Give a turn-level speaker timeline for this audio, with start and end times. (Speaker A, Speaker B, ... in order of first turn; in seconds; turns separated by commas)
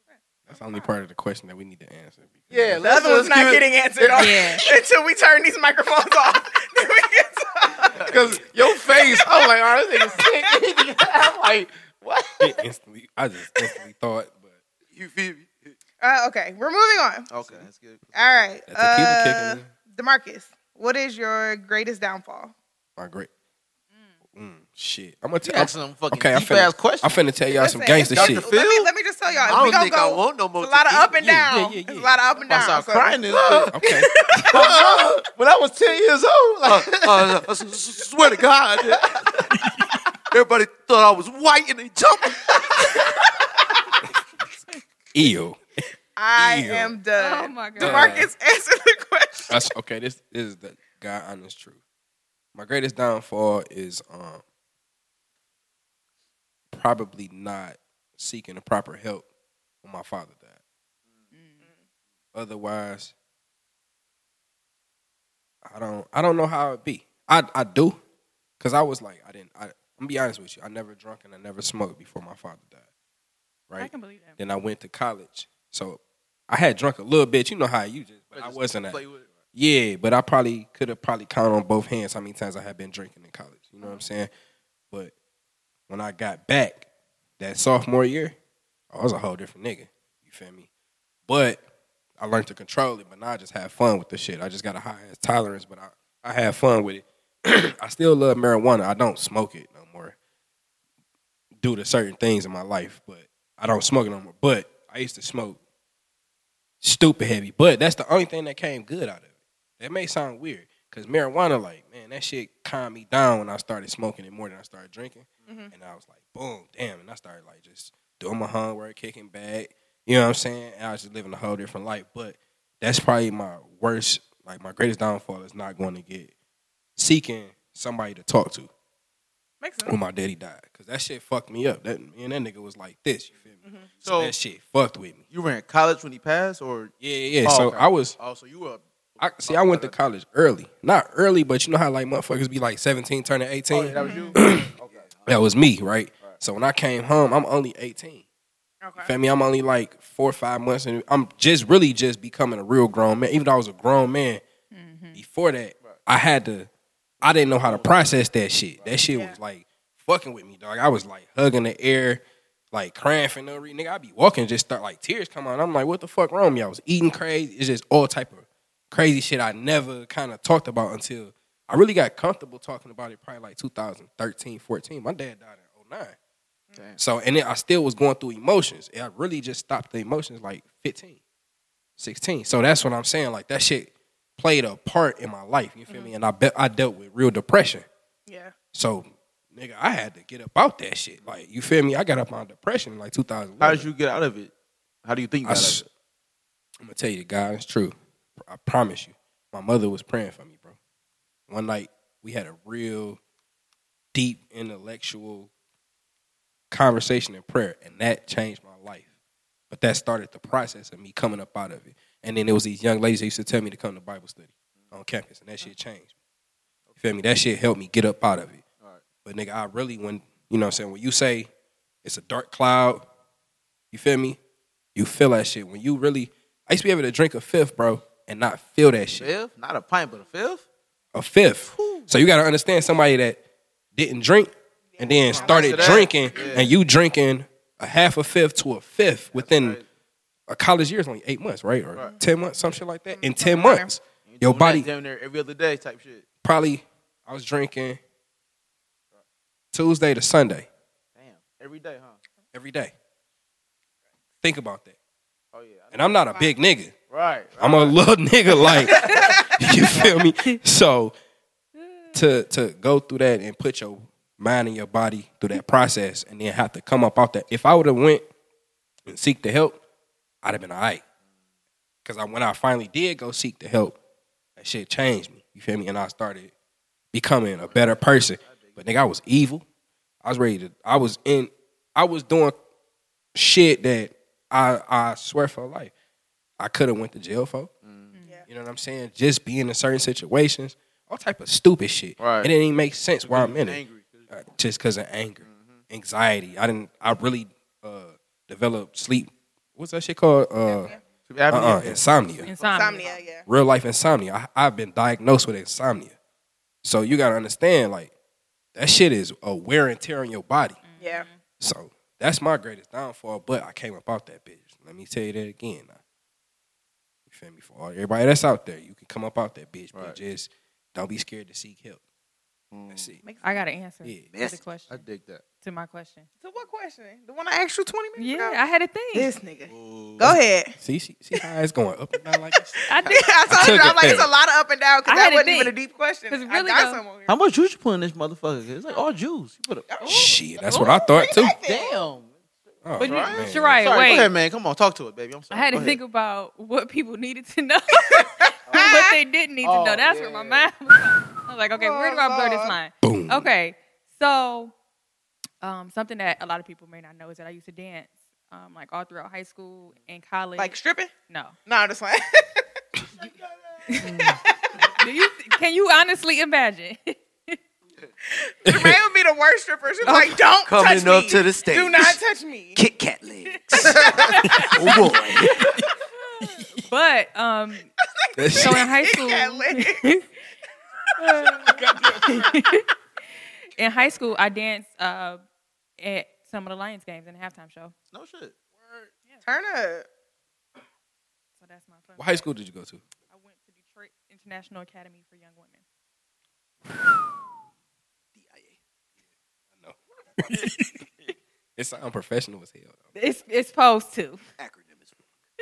Speaker A: 0.5-2.8, Speaker B: 0.5-0.9, Speaker C: 2.5-4.7, Speaker B: 2.8-8.2, Speaker D: 4.2-4.6, Speaker C: 7.9-12.6, Speaker A: 12.4-14.6, Speaker E: 14.9-15.8, Speaker B: 16.0-17.3, Speaker C: 17.3-18.5, Speaker B: 18.1-22.5, Speaker A: 18.7-19.7, Speaker A: 23.0-23.3, Speaker A: 24.3-28.5, Speaker C: 25.4-27.2, Speaker B: 27.5-34.7, Speaker C: 28.1-28.9, Speaker E: 29.5-31.3, Speaker A: 31.2-32.2, Speaker C: 32.5-33.7, Speaker A: 33.7-34.1, Speaker C: 34.5-37.4, Speaker E: 34.5-35.2, Speaker E: 36.6-39.5, Speaker C: 38.9-39.2, Speaker E: 40.3-43.1, Speaker A: 45.1-45.6, Speaker B: 46.1-49.5, Speaker A: 46.3-47.0, Speaker D: 47.2-48.2, Speaker A: 47.8-48.3, Speaker A: 49.5-51.8, Speaker A: 52.5-54.4, Speaker A: 56.7-59.2, Speaker A: 59.8-60.6, Speaker D: 61.3-61.6, Speaker A: 62.3-63.1, Speaker A: 65.6-68.0, Speaker A: 68.6-72.9, Speaker A: 73.7-79.0, Speaker D: 73.8-74.4, Speaker C: 78.3-79.5, Speaker A: 79.5-84.3, Speaker A: 85.9-86.9, Speaker A: 87.4-88.3, Speaker A: 88.9-90.7, Speaker A: 91.3-91.6, Speaker A: 92.2-100.1, Speaker A: 101.6-105.6, Speaker A: 106.8-126.3, Speaker B: 115.5-115.7, Speaker A: 127.0-128.7, Speaker B: 129.6-129.9, Speaker A: 129.8-135.2, Speaker B: 133.6-133.9, Speaker C: 134.0-134.3, Speaker C: 135.3-139.9, Speaker A: 137.0-138.2, Speaker A: 139.2-144.7, Speaker C: 143.7-145.1, Speaker B: 143.9-144.3, Speaker E: 144.8-145.4, Speaker A: 145.2-148.2, Speaker B: 148.8-149.1, Speaker A: 149.0-154.4, Speaker D: 154.7-155.2, Speaker A: 155.1-156.7, Speaker A: 157.2-176.2, Speaker C: 157.2-158.1, Speaker B: 159.1-159.4, Speaker A: 177.0-181.2, Speaker A: 182.0-187.8, Speaker B: 188.3-188.5, Speaker A: 188.7-193.9, Speaker C: 193.6-194.5, Speaker C: 195.0-195.8, Speaker A: 195.4-195.8, Speaker A: 196.8-200.8, Speaker A: 201.5-203.2, Speaker A: 204.1-205.5, Speaker A: 206.7-209.1, Speaker A: 209.7-216.1, Speaker A: 217.0-218.6, Speaker C: 218.8-219.0, Speaker A: 219.2-221.5, Speaker A: 222.0-223.1, Speaker A: 223.9-224.4, Speaker A: 224.9-229.3, Speaker C: 229.2-230.6, Speaker A: 231.1-233.4, Speaker C: 231.7-232.1, Speaker A: 233.9-239.8, Speaker B: 234.9-236.7, Speaker C: 235.3-236.7, Speaker C: 239.3-239.9, Speaker A: 240.5-244.9, Speaker B: 242.0-242.2, Speaker B: 243.1-243.9, Speaker C: 244.2-246.3, Speaker A: 246.4-248.0, Speaker A: 249.7-250.7, Speaker C: 251.1-252.2, Speaker A: 252.5-252.9, Speaker A: 254.4-254.9, Speaker C: 255.5-256.4, Speaker A: 255.9-256.9, Speaker C: 257.1-257.9, Speaker A: 257.6-261.1, Speaker B: 258.9-259.5, Speaker C: 258.9-259.3, Speaker D: 261.8-262.1, Speaker A: 262.1-268.2, Speaker A: 269.1-269.8, Speaker A: 270.4-271.0, Speaker A: 272.0-274.0, Speaker A: 274.6-276.5, Speaker A: 277.1-279.6, Speaker C: 277.6-278.8, Speaker A: 280.2-282.6, Speaker A: 283.3-285.9, Speaker A: 286.6-287.7, Speaker C: 287.8-288.1, Speaker B: 288.2-288.5, Speaker A: 288.5-300.9, Speaker C: 292.2-292.5, Speaker C: 293.2-294.3, Speaker C: 295.4-295.8, Speaker B: 300.6-301.0, Speaker C: 301.3-303.1, Speaker A: 301.5-302.5, Speaker D: 302.4-303.2, Speaker B: 302.7-303.4, Speaker A: 303.4-306.1, Speaker A: 306.8-308.1, Speaker A: 308.7-310.8, Speaker D: 310.8-311.4, Speaker B: 311.0-311.2, Speaker A: 311.6-316.0, Speaker A: 317.3-322.0, Speaker C: 319.9-320.2, Speaker C: 322.7-323.1, Speaker A: 322.9-323.2, Speaker B: 323.2-323.6, Speaker D: 323.4-325.0, Speaker E: 324.3-324.6, Speaker C: 324.9-325.4, Speaker D: 325.6-326.3, Speaker B: 326.4-328.6, Speaker D: 328.2-329.3, Speaker B: 329.1-330.8, Speaker C: 329.7-330.3, Speaker A: 330.3-332.7, Speaker B: 332.5-337.4, Speaker D: 332.9-333.8, Speaker A: 333.5-334.3, Speaker D: 335.1-335.8, Speaker D: 336.3-337.0, Speaker C: 337.2-339.9, Speaker B: 339.9-342.1, Speaker A: 340.0-341.5, Speaker D: 340.7-340.9, Speaker C: 341.6-342.4, Speaker A: 342.8-343.8, Speaker C: 342.9-346.0, Speaker D: 343.3-344.3, Speaker D: 345.5-354.7, Speaker B: 348.1-349.2, Speaker C: 348.7-349.0, Speaker C: 349.6-350.7, Speaker B: 351.7-352.8, Speaker A: 353.0-353.5, Speaker D: 355.6-360.8, Speaker B: 360.6-361.1, Speaker D: 361.3-361.5, Speaker B: 361.6-362.6, Speaker B: 363.9-365.1, Speaker D: 363.9-367.6, Speaker C: 364.0-364.4, Speaker B: 368.2-372.8, Speaker A: 368.7-369.0, Speaker D: 370.0-370.4, Speaker E: 370.6-372.2, Speaker E: 372.8-375.7, Speaker D: 373.5-377.9, Speaker B: 374.0-374.7, Speaker A: 374.8-375.8, Speaker B: 378.2-380.1, Speaker A: 378.4-378.8, Speaker D: 378.6-380.3, Speaker D: 381.2-382.9, Speaker B: 381.3-382.3, Speaker A: 381.7-382.5, Speaker D: 383.8-385.4, Speaker D: 386.0-387.9, Speaker C: 388.1-388.6, Speaker D: 388.9-389.4, Speaker B: 389.4-390.1, Speaker D: 391.6-392.5, Speaker A: 392.2-393.0, Speaker D: 393.3-395.8, Speaker E: 398.3-398.8, Speaker A: 399.8-400.7, Speaker A: 401.8-403.1, Speaker D: 403.1-404.4, Speaker E: 404.6-405.2